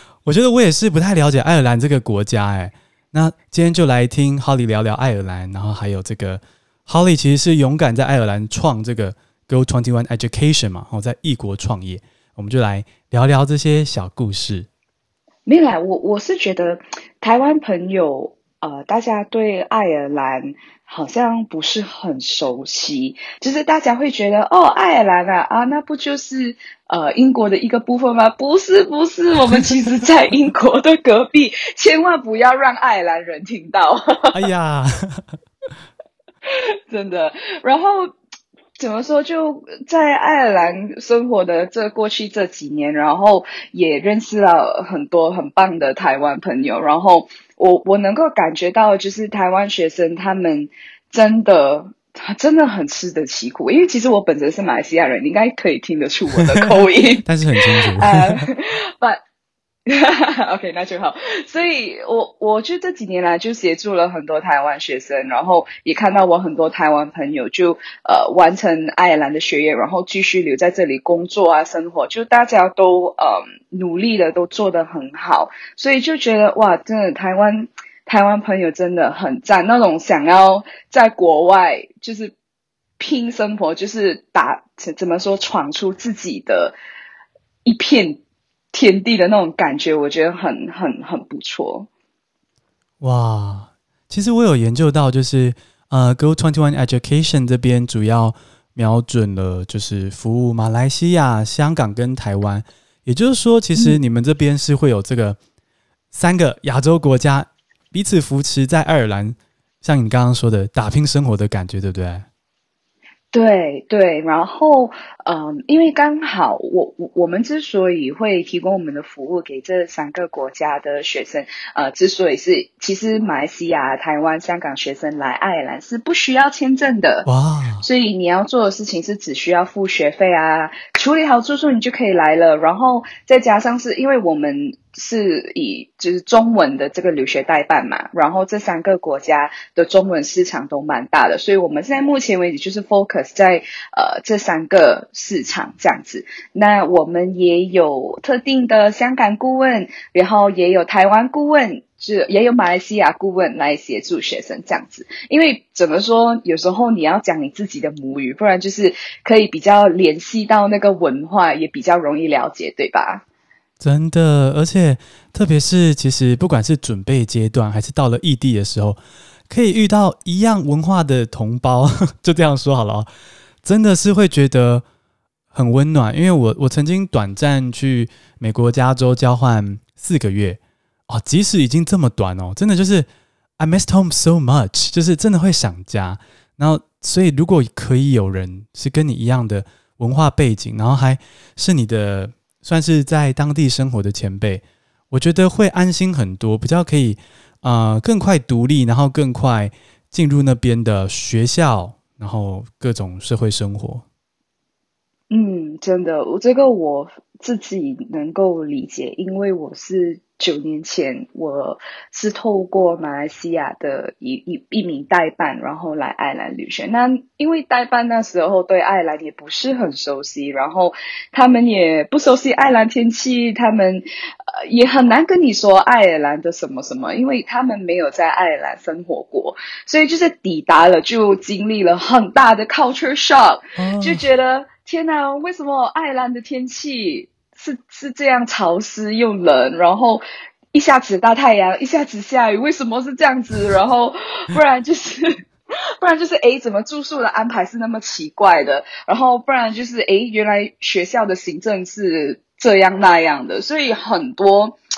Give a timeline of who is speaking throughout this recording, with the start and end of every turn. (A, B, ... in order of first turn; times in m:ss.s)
0:00.2-0:14.7 A
0:15.4-0:34.4 B
0:29.5-0:29.8 A
0:34.3-0:35.2 A
0:36.5-0:38.1 B
0:38.8-0:57.2 B
0:56.5-0:58.5 A
0:57.8-0:59.2 B
0:59.8-1:22.3 B
1:23.0-1:26.7 B
1:27.6-1:28.2 B
1:28.7-1:31.9 B
1:33.0-1:45.4 A
1:46.1-1:52.2 A
1:53.3-2:07.3 B
2:07.2-2:07.8 A
2:07.8-2:43.2 B
2:43.8-2:49.0 A
2:49.5-2:53.1 A
2:53.6-2:54.8 A
2:55.5-3:03.1 A
3:03.6-3:24.0 A
3:25.3-4:05.3 B
3:53.8-3:54.2 A
4:06.0-4:14.8 B